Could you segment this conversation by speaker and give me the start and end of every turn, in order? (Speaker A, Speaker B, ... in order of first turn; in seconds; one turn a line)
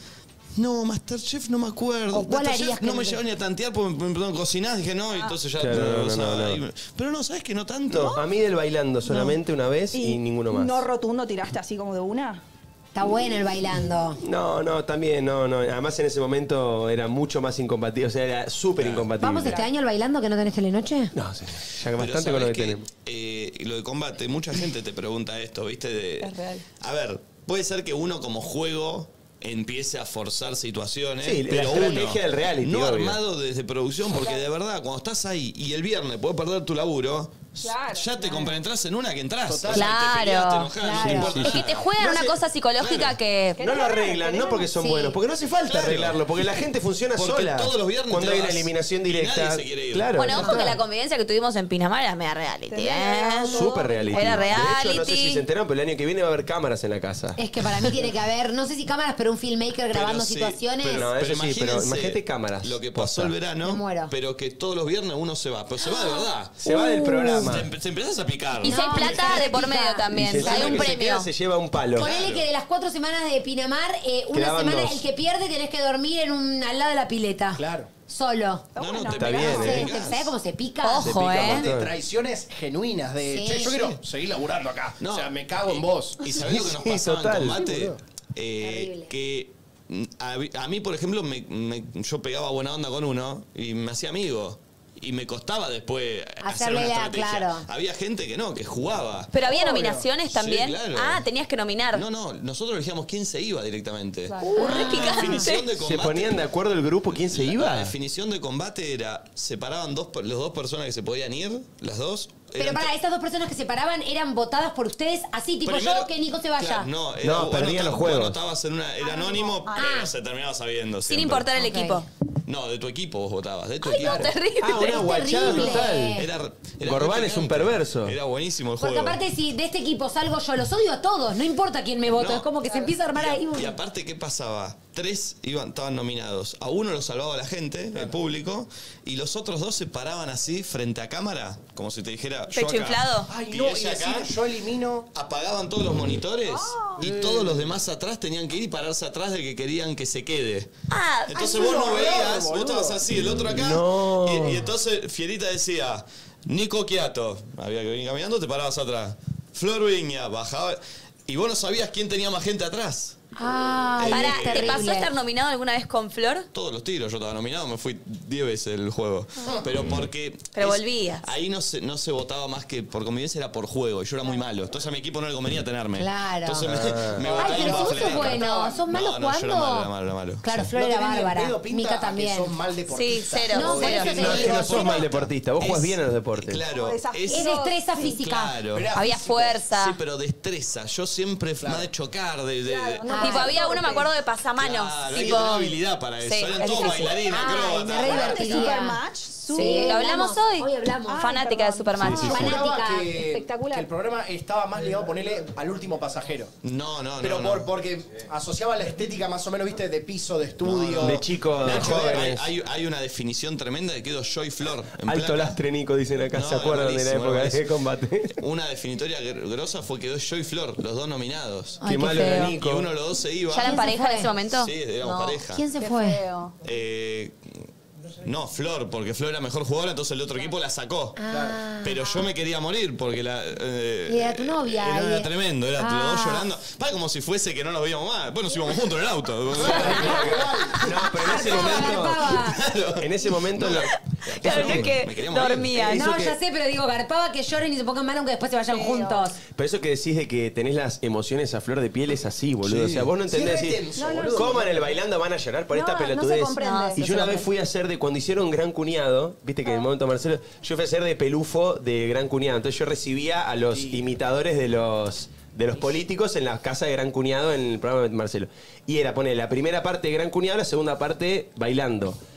Speaker A: 0.6-8.1
Speaker B: 2.1-3.2
Speaker C: 5.5-6.6
Speaker C: 7.9-10.8
Speaker D: 9.9-12.4
Speaker B: 12.9-14.2
Speaker C: 14.2-19.6
Speaker A: 18.8-19.1
Speaker B: 19.2-21.1
Speaker C: 21.1-22.9
Speaker A: 21.9-41.9
Speaker D: 26.2-26.6
Speaker C: 31.2-33.2
Speaker D: 34.1-34.4
Speaker D: 37.6-38.6
Speaker E: 39.4-40.1
Speaker F: 39.7-40.8
Speaker B: 40.7-41.4
Speaker C: 41.0-42.3
Speaker F: 41.3-43.6
Speaker A: 42.8-43.1
Speaker D: 43.6-45.0
Speaker C: 43.6-50.7
Speaker B: 44.6-45.1
Speaker A: 45.6-46.5
Speaker A: 47.1-50.1
Speaker F: 50.1-55.4
Speaker D: 52.7-54.7
Speaker C: 53.5-57.9
Speaker B: 57.4-61.1
Speaker A: 59.9-66.6
Speaker C: 60.8-63.4
Speaker B: 63.6-64.1
Speaker C: 66.6-67.7
Speaker B: 66.6-67.6
Speaker A: 67.4-68.8
Speaker B: 68.6-70.6
Speaker F: 68.6-71.3
Speaker C: 70.1-72.1
Speaker A: 70.4-70.9
Speaker B: 71.9-78.7
Speaker A: 72.0-72.5
Speaker C: 74.3-75.0
Speaker E: 77.5-77.9
Speaker D: 78.7-80.1
Speaker A: 78.8-80.3
Speaker C: 79.0-80.0
Speaker B: 79.4-81.2
Speaker F: 80.8-81.7
Speaker C: 81.0-81.9
Speaker E: 81.3-86.7
Speaker B: 83.3-83.7
Speaker C: 83.6-84.0
Speaker A: 85.0-99.3
Speaker C: 86.3-87.7
Speaker E: 87.5-88.0
Speaker B: 88.6-89.1
Speaker B: 96.4-97.7
Speaker F: 99.3-102.1
Speaker E: 99.5-100.0
Speaker A: 100.3-101.2
Speaker A: 101.9-106.4
Speaker D: 104.3-104.9
Speaker B: 104.5-105.4
Speaker F: 104.5-105.7
Speaker C: 105.8-107.9
Speaker A: 107.2-112.9
Speaker B: 112.5-116.9
Speaker A: 115.6-121.5
Speaker C: 117.2-118.4
Speaker D: 119.0-120.0
Speaker B: 119.7-120.1
Speaker F: 121.0-122.1
Speaker B: 121.5-122.0
Speaker A: 122.5-124.4
Speaker F: 123.8-125.0
Speaker B: 123.9-126.3
Speaker C: 124.6-126.3
Speaker A: 125.4-129.2
Speaker C: 126.8-128.2
Speaker B: 128.8-133.8
Speaker A: 132.1-132.5
Speaker A: 133.0-144.4
Speaker F: 142.5-143.3
Speaker E: 143.3-145.1
Speaker A: 145.1-150.7
Speaker D: 146.5-147.0
Speaker E: 147.0-147.8
Speaker F: 150.9-152.1
Speaker A: 151.3-163.2
Speaker E: 151.6-153.0
Speaker C: 153.5-154.7
Speaker B: 163.3-165.1
Speaker A: 164.0-164.7
Speaker F: 164.0-166.5
Speaker A: 166.5-180.6
Speaker E: 169.4-169.9
Speaker F: 170.5-171.3
Speaker B: 175.9-176.8
Speaker C: 176.6-177.3
Speaker E: 177.2-178.8
Speaker B: 177.3-179.9
Speaker B: 180.4-182.6
Speaker E: 180.7-184.7
Speaker F: 182.9-184.1
Speaker B: 183.5-185.1
Speaker A: 183.8-187.4
Speaker C: 184.1-186.6
Speaker D: 186.7-188.2
Speaker B: 187.3-188.6
Speaker A: 188.2-188.9
Speaker E: 188.7-189.6
Speaker F: 188.9-190.0
Speaker A: 189.7-193.0
Speaker E: 191.6-191.9
Speaker D: 192.6-194.1
Speaker B: 193.1-193.5
Speaker F: 193.1-197.2
Speaker A: 194.6-198.7
Speaker D: 196.6-200.3
Speaker B: 196.6-203.2
Speaker E: 197.9-198.5
Speaker F: 199.5-202.6
Speaker D: 201.1-202.5
Speaker C: 202.0-202.4
Speaker E: 202.0-206.5
Speaker D: 203.3-203.9
Speaker A: 206.6-207.7
Speaker E: 207.2-212.1
Speaker A: 210.6-215.6
Speaker C: 211.0-212.5
Speaker C: 215.0-218.4
Speaker A: 216.3-217.6
Speaker A: 218.3-223.8
Speaker F: 221.8-222.5
Speaker C: 221.8-222.9
Speaker F: 223.5-225.4
Speaker B: 223.6-224.3
Speaker A: 224.4-225.6
Speaker B: 225.5-226.2
Speaker D: 225.8-226.5
Speaker A: 226.6-227.4
Speaker A: 228.2-231.2
Speaker B: 231.2-232.2
Speaker E: 231.3-231.7
Speaker A: 231.8-240.5
Speaker B: 234.1-236.5
Speaker E: 239.5-241.7
Speaker C: 239.6-244.9
Speaker B: 239.7-240.2
Speaker B: 241.0-242.6
Speaker A: 241.9-246.0
Speaker F: 243.7-246.1
Speaker C: 245.8-246.3
Speaker B: 245.9-249.4
Speaker D: 248.7-249.2
Speaker C: 249.5-253.8
Speaker A: 252.6-253.1
Speaker E: 253.2-254.9
Speaker D: 253.9-254.7
Speaker C: 254.3-272.2
Speaker D: 255.7-257.3
Speaker F: 256.6-257.5
Speaker E: 263.7-264.0